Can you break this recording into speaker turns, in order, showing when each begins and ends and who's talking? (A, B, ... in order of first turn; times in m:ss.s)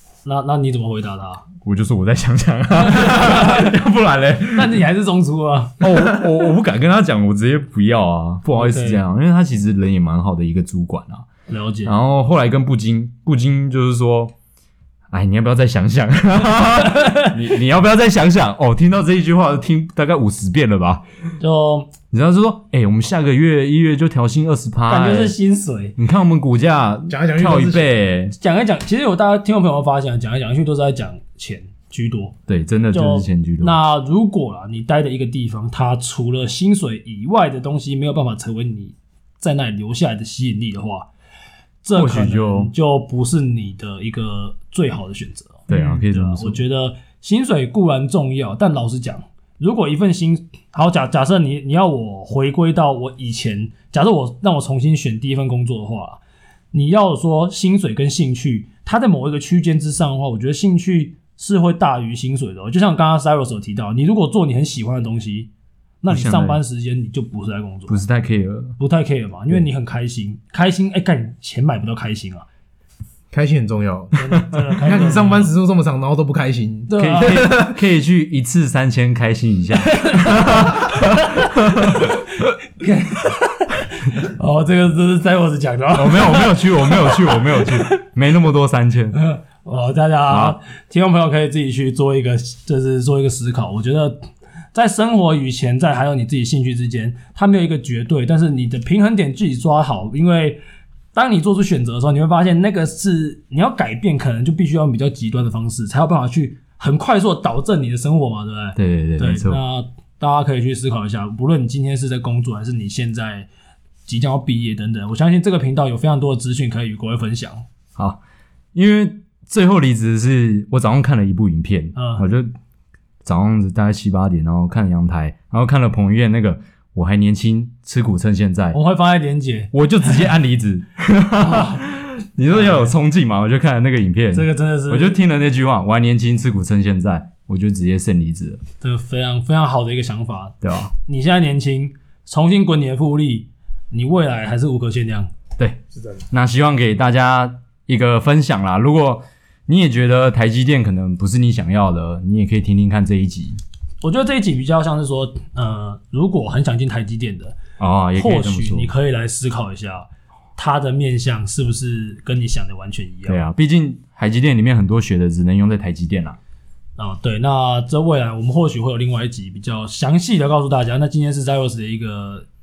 0:00.2-0:01.5 A
0:01.6-0:04.8 B
0:02.8-0:03.7 A
0:04.5-0:05.8 A
0:05.8-0:11.2 B
0:08.5-0:09.0 A
0:11.5-0:11.9 A
0:11.8-0:14.3 B
0:15.1-0:21.0 B
0:17.0-0:17.3 A
0:21.4-0:21.9 A
0:22.1-0:25.4 B
0:24.9-0:26.0 A
0:26.0-0:28.4 B
0:27.1-0:27.9 C
0:28.4-0:32.4 A
0:32.5-0:33.8 B
0:32.9-0:41.1 A
0:41.8-0:56.2 A
0:41.9-0:42.7 B
0:45.7-0:46.6 B
0:45.7-0:46.0 C
0:56.7-1:05.5 A
1:06.0-1:08.0 A
1:06.1-1:06.6 B
1:07.9-1:08.8 B
1:08.8-1:12.4 A
1:13.3-1:17.7 C
1:14.2-1:15.5 A
1:16.9-1:17.6 A
1:17.0-1:22.1 B
1:19.9-1:27.9 A
1:25.9-1:29.2 B
1:29.1-1:40.6 A
1:30.3-1:30.6 B
1:41.1-1:53.5 A
1:48.8-1:49.6 B
1:54.0-1:57.6 A
1:58.7-2:02.5 B
2:01.9-2:02.2 A
2:03.2-2:08.8 B
2:08.7-2:10.2 A
2:09.7-2:18.6 B
2:11.4-2:11.9 A
2:12.5-2:12.9 A
2:14.3-2:15.2 A
2:18.8-2:25.3 A
2:20.6-2:20.9 B
2:26.3-2:33.6 B
2:34.0-2:37.6 A
2:37.8-2:38.9 B
2:38.1-2:43.4 A
2:43.2-2:46.4 B
2:47.0-2:52.4 A